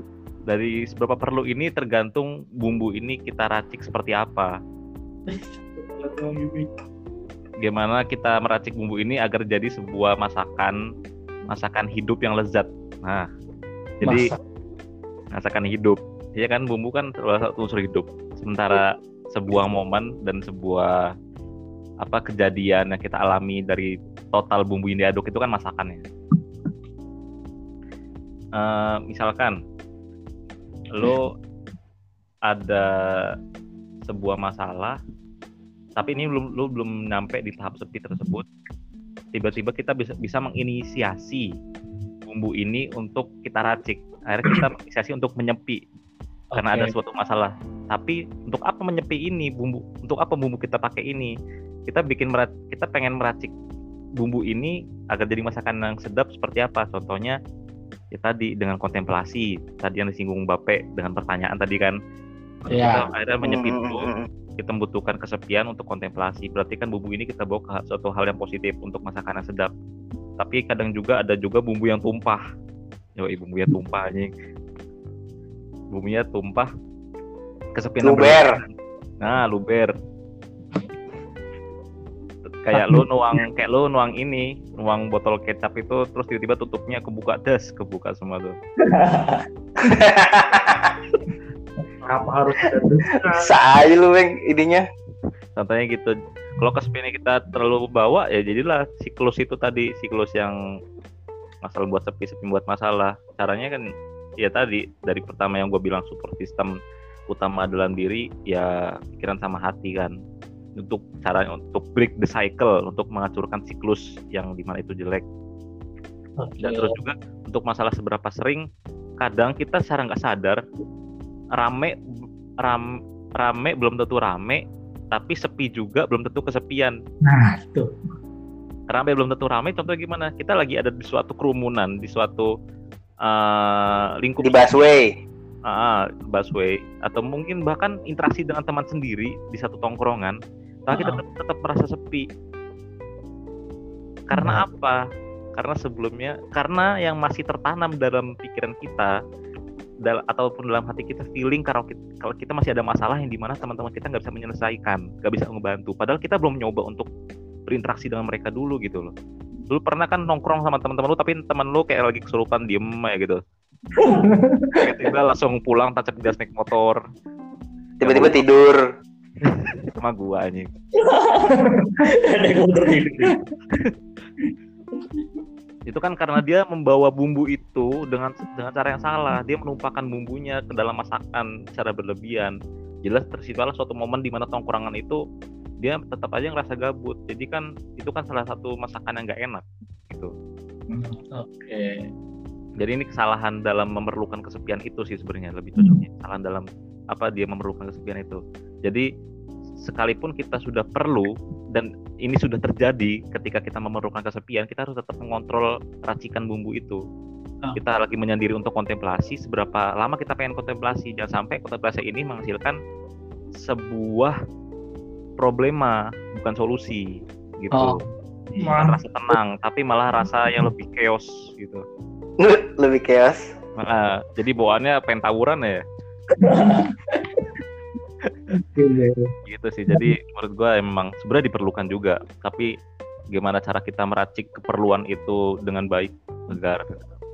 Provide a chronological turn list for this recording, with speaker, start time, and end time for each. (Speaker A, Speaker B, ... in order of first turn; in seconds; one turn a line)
Speaker A: 0.5-4.6
Speaker B: 5.8-6.7
Speaker A: 7.6-10.8
Speaker A: 11.5-13.3
Speaker A: 14.0-14.3
Speaker C: 14.0-14.4
Speaker A: 15.3-21.1
Speaker A: 22.0-26.0
Speaker A: 28.6-29.6
Speaker A: 30.9-31.3
Speaker A: 32.5-33.2
Speaker A: 34.1-35.0
Speaker A: 36.0-38.5
Speaker A: 39.3-41.5
Speaker A: 42.3-45.8
Speaker C: 46.5-46.9
Speaker A: 46.6-51.3
Speaker A: 51.9-53.5
Speaker A: 54.2-57.4
Speaker A: 58.1-62.0
Speaker A: 62.6-64.1
Speaker C: 62.7-63.0
Speaker D: 63.4-64.3
Speaker A: 64.6-69.7
Speaker A: 70.4-72.4
Speaker A: 73.2-74.3
Speaker A: 75.9-76.7
Speaker A: 77.8-79.9
Speaker D: 78.0-78.6
Speaker A: 82.5-88.6
Speaker C: 82.8-83.0
Speaker E: 88.9-89.4
Speaker D: 89.8-91.0
Speaker B: 92.1-93.5
Speaker D: 93.1-94.9
Speaker A: 95.6-100.5
Speaker A: 101.6-106.7
Speaker A: 107.3-110.1
Speaker A: 110.8-115.2
Speaker C: 116.4-117.0
Speaker A: 116.6-118.7
Speaker A: 119.2-120.6
Speaker A: 121.6-122.0
Speaker A: 122.6-127.0
Speaker C: 127.2-127.9
Speaker A: 128.9-132.5
Speaker A: 133.2-134.8
Speaker D: 134.4-135.1
Speaker A: 135.7-140.4
Speaker A: 140.9-142.3
Speaker A: 144.3-145.0
Speaker A: 145.6-149.1
Speaker A: 150.0-157.1
Speaker A: 157.7-159.1
Speaker A: 159.7-163.4
Speaker C: 164.1-164.8
Speaker A: 164.8-167.0
Speaker D: 168.0-168.8
Speaker A: 168.0-168.5
Speaker A: 169.5-170.7
Speaker E: 171.0-173.3
Speaker A: 175.9-185.2
Speaker A: 185.8-190.3
Speaker C: 190.9-192.0
Speaker A: 192.8-199.1
Speaker A: 199.8-207.0
Speaker A: 207.8-212.8
Speaker A: 213.6-214.4
Speaker A: 215.4-218.0
Speaker C: 217.7-218.1
Speaker A: 218.6-221.8
Speaker B: 218.6-219.0
Speaker D: 222.4-223.5
Speaker A: 223.8-225.8
Speaker C: 226.4-226.9
Speaker C: 228.8-229.3
Speaker A: 229.5-232.7
Speaker A: 233.3-237.0